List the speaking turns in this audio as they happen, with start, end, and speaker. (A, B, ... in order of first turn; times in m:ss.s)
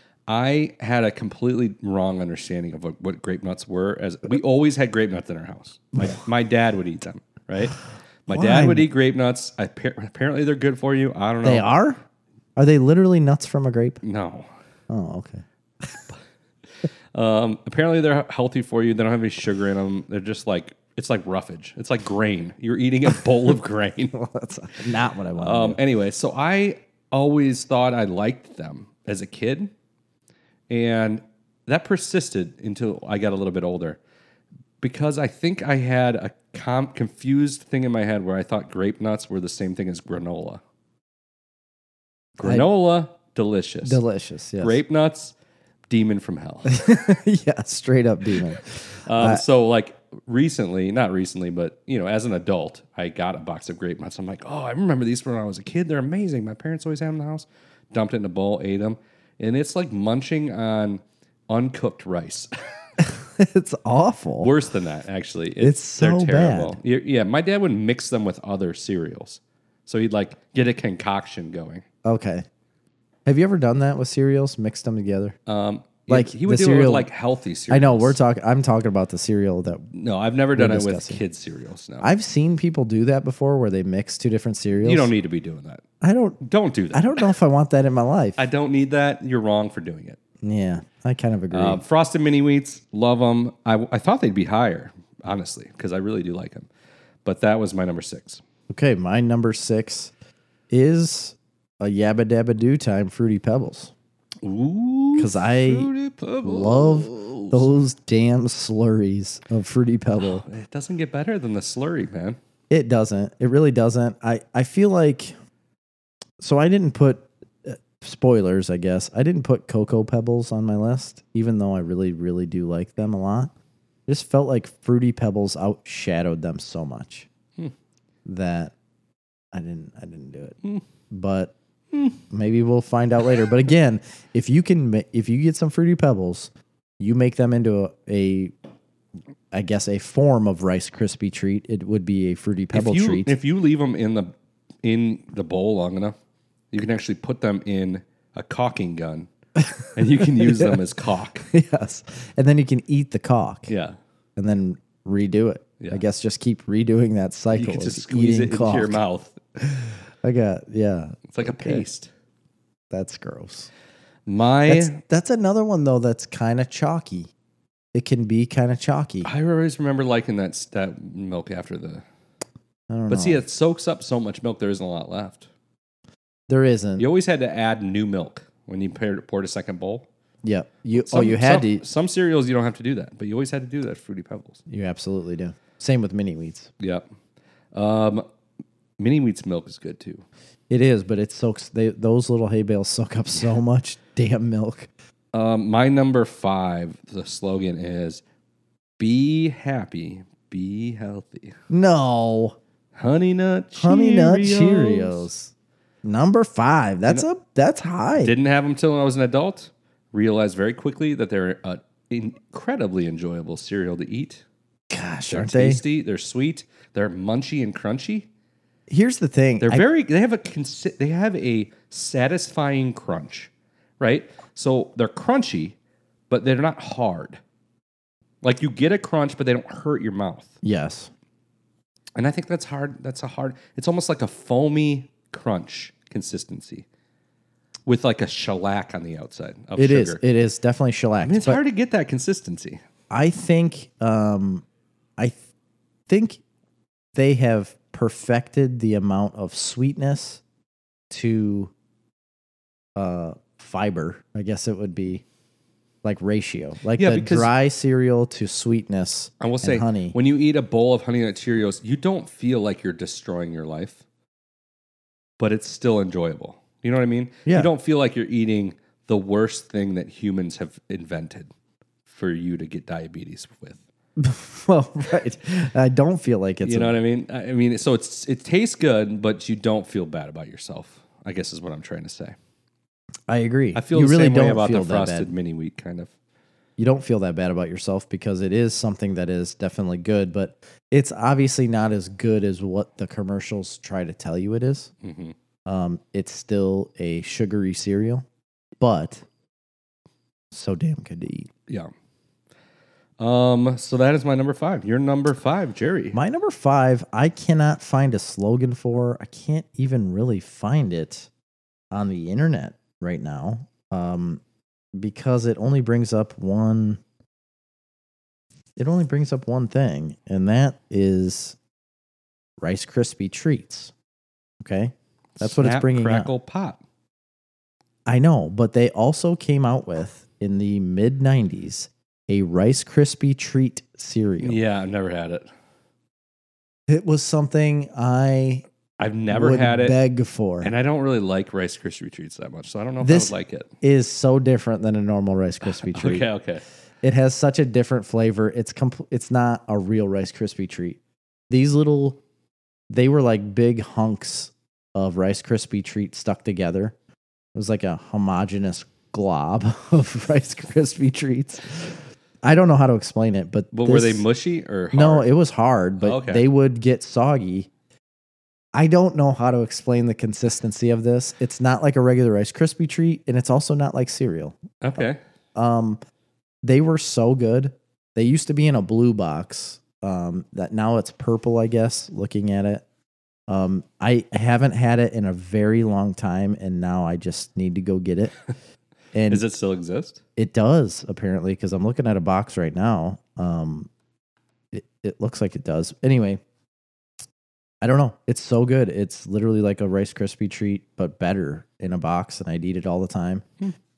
0:00.3-0:11.7 A
0:08.3-0:08.9 B
0:11.4-0:12.0 B
0:12.6-0:14.0 B
0:14.0-0:14.5 A
0:14.9-0:16.0 B
0:17.1-0:24.2 A
0:24.1-0:25.8 B
0:25.4-0:29.7 A
0:30.7-0:34.0 A
0:34.8-0:40.6 A
0:42.4-0:42.7 B
0:42.4-0:44.0 A
0:43.8-0:44.8 B
0:44.6-0:45.4 A
0:45.9-0:46.8 A
0:46.7-0:49.4 B
0:49.0-1:02.5 A
1:03.0-1:04.5 B
1:04.4-1:11.8 A
1:05.6-1:06.8 B
1:12.0-1:12.4 B
1:13.3-1:15.4 B
1:15.5-1:18.2 A
1:16.1-1:17.1 B
1:17.7-1:19.9 B
1:19.9-1:22.1 A
1:20.6-1:21.2 B
1:22.0-1:25.1 B
1:24.8-1:25.8 A
1:26.0-1:26.4 B
1:26.4-1:27.3 A
1:26.9-1:28.4 B
1:28.4-1:30.2 A
1:30.4-1:31.8 B
1:31.5-1:36.7 A
1:37.2-1:38.4 A
1:38.7-1:40.1 B
1:40.7-1:43.9 B
1:44.4-1:47.7 A
1:45.2-1:45.9 B
1:46.4-1:50.4 B
1:50.2-1:52.4 A
1:52.7-1:55.3 B
1:56.4-2:03.5 B
2:04.1-2:07.3 B
2:08.3-2:08.7 B
2:09.5-2:10.6 B
2:11.1-2:11.5 B
2:11.9-2:12.2 A
2:12.3-2:18.5 B
2:19.5-2:23.3 B
2:22.7-2:24.3 A
2:24.8-2:26.2 A
2:26.7-2:29.3 A
2:29.8-2:30.8 B
2:29.9-2:31.5 A
2:31.5-2:33.7 B
2:33.7-2:34.0 A
2:34.4-2:39.0 B
2:37.5-2:39.4 A
2:40.2-2:41.8 B
2:41.3-2:42.1 A
2:42.9-2:43.7 B
2:44.3-2:45.0 A
2:44.7-2:47.3 B
2:47.9-2:49.3 B
2:49.2-2:52.0 A
2:52.9-2:53.4 B
2:53.1-2:55.5 A
2:56.5-2:57.1 B
2:57.0-3:00.1 A
3:00.4-3:01.8 B
3:01.0-3:04.6 A
3:04.7-3:06.7 B
3:06.8-3:07.0 A
3:07.7-3:08.2 A
3:09.0-3:10.2 A
3:10.7-3:14.9 B
3:15.3-3:18.2 A
3:19.0-3:21.6 A
3:21.7-3:22.6 B
3:23.0-3:25.3 A
3:23.8-3:25.5 B
3:26.0-3:28.3 B
3:28.2-3:34.4 A
3:34.9-3:35.8 B
3:35.3-3:38.3 A
3:38.9-3:39.8 B
3:39.6-3:45.8 A
3:46.3-3:47.4 A
3:48.4-3:50.5 A
3:50.6-3:51.1 B
3:52.2-3:56.8 A
3:57.9-4:00.2 A
3:59.8-4:01.6 B
4:01.2-4:02.8 A
4:03.1-4:04.6 B
4:06.1-4:06.4 B
4:07.2-4:10.4 B
4:11.1-4:11.7 B
4:13.0-4:15.2 B
4:16.0-4:20.2 B
4:17.0-4:17.5 A
4:19.4-4:24.0 A
4:25.4-4:31.5 A
4:32.1-4:33.8 A
4:34.2-4:37.0 B
4:36.6-4:42.4 A
4:43.3-4:45.3 B
4:43.7-4:46.1 A
4:46.8-4:54.9 B
4:55.0-4:55.4 A
4:55.7-4:58.3 B
4:58.8-4:59.2 B
5:00.5-5:01.5 B
5:03.2-5:06.2 A
5:06.1-5:11.3 B
5:11.9-5:14.4 B
5:15.0-5:17.0 B
5:18.8-5:21.6 B
5:22.6-5:23.9 B
5:24.6-5:26.3 B
5:25.4-5:26.8 A
5:28.1-5:34.6 B
5:34.4-5:35.5 A
5:36.9-5:38.6 B
5:39.0-5:40.0 A
5:39.3-5:40.7 B
5:40.6-5:43.7 A
5:43.0-5:46.3 B
5:45.7-5:46.6 A
5:47.0-5:51.0 B
5:51.5-5:52.2 B
5:52.9-5:56.9 B
5:57.6-6:04.2 B
6:03.7-6:05.3 A
6:04.9-6:07.7 B
6:06.0-6:06.4 A
6:08.7-6:15.0 B
6:14.8-6:15.2 A
6:15.6-6:16.0 B
6:16.6-6:22.8 B
6:23.5-6:28.3 B
6:29.1-6:29.4 B
6:29.3-6:30.2 A
6:30.4-6:33.9 B
6:34.7-6:36.4 B
6:37.8-6:43.5 B